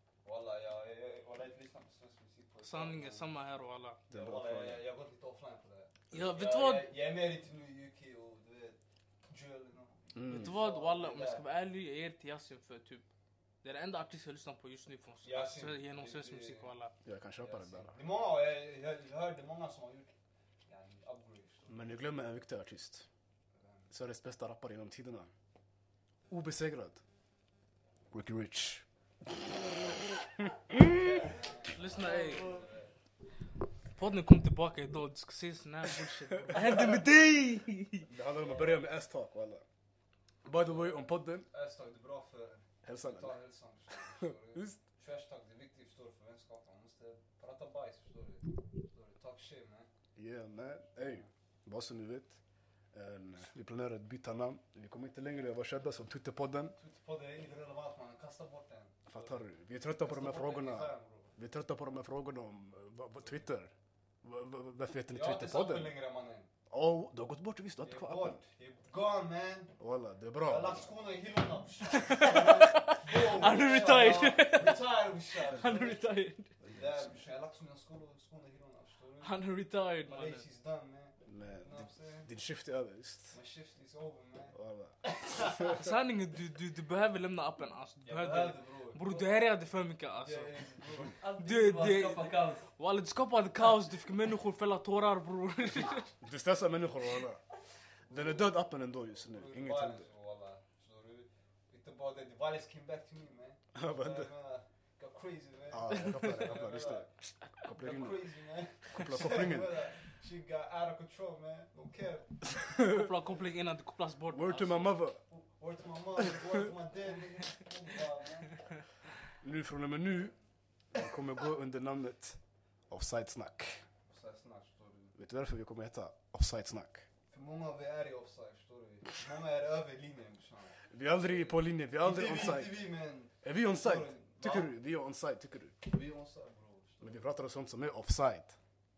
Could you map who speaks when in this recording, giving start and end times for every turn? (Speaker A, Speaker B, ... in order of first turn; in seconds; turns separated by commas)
Speaker A: 0.2-3.3, Speaker B: 2.6-4.0, Speaker C: 4.1-4.8, Speaker A: 4.1-11.4, Speaker B: 6.1-6.9, Speaker C: 10.1-10.6, Speaker B: 10.3-13.1, Speaker B: 13.6-16.9, Speaker A: 15.2-16.7, Speaker C: 17.0-18.0, Speaker A: 17.4-20.1, Speaker A: 20.7-21.9, Speaker C: 21.7-23.1, Speaker A: 23.6-23.9, Speaker C: 23.9-25.3, Speaker C: 26.3-27.0, Speaker C: 28.1-28.8, Speaker C: 30.4-31.3, Speaker A: 30.7-32.9, Speaker B: 31.7-32.6, Speaker D: 31.9-32.6, Speaker B: 34.0-38.1, Speaker C: 36.5-37.0, Speaker C: 38.1-39.6, Speaker A: 38.4-38.8, Speaker C: 40.5-41.5, Speaker A: 40.5-49.9, Speaker C: 42.8-43.4, Speaker C: 44.2-44.8, Speaker C: 50.2-52.4, Speaker A: 51.0-51.3, Speaker C: 52.9-56.8, Speaker A: 56.8-59.5, Speaker C: 59.1-65.9, Speaker A: 60.0-61.4, Speaker A: 65.1-66.5, Speaker C: 66.7-68.4, Speaker A: 67.8-69.8, Speaker C: 69.8-70.9, Speaker A: 70.4-76.1, Speaker B: 72.1-74.9, Speaker B: 75.4-76.5, Speaker A: 76.6-79.3, Speaker C: 76.7-77.0, Speaker B: 79.2-80.4, Speaker A: 80.0-82.3, Speaker C: 81.3-83.4, Speaker A: 83.3-85.7, Speaker C: 84.5-85.7, Speaker B: 85.6-90.6, Speaker A: 88.0-89.2, Speaker A: 90.2-91.2, Speaker D: 91.2-92.7, Speaker B: 91.4-96.1, Speaker C: 96.2-97.4, Speaker A: 98.1-98.6, Speaker C: 98.1-100.1, Speaker A: 99.2-107.1, Speaker C: 103.7-104.3, Speaker C: 105.7-108.3, Speaker B: 105.9-106.5, Speaker A: 107.7-112.5, Speaker C: 108.8-109.8, Speaker C: 112.6-113.1, Speaker B: 112.7-114.9, Speaker C: 114.3-115.2, Speaker A: 115.3-118.6, Speaker C: 119.4-120.3, Speaker C: 120.9-122.4, Speaker C: 122.9-123.8, Speaker A: 124.1-125.2, Speaker C: 125.2-127.1, Speaker A: 127.3-134.7, Speaker C: 130.9-132.8, Speaker C: 133.4-135.8, Speaker A: 135.8-137.3, Speaker C: 137.0-138.6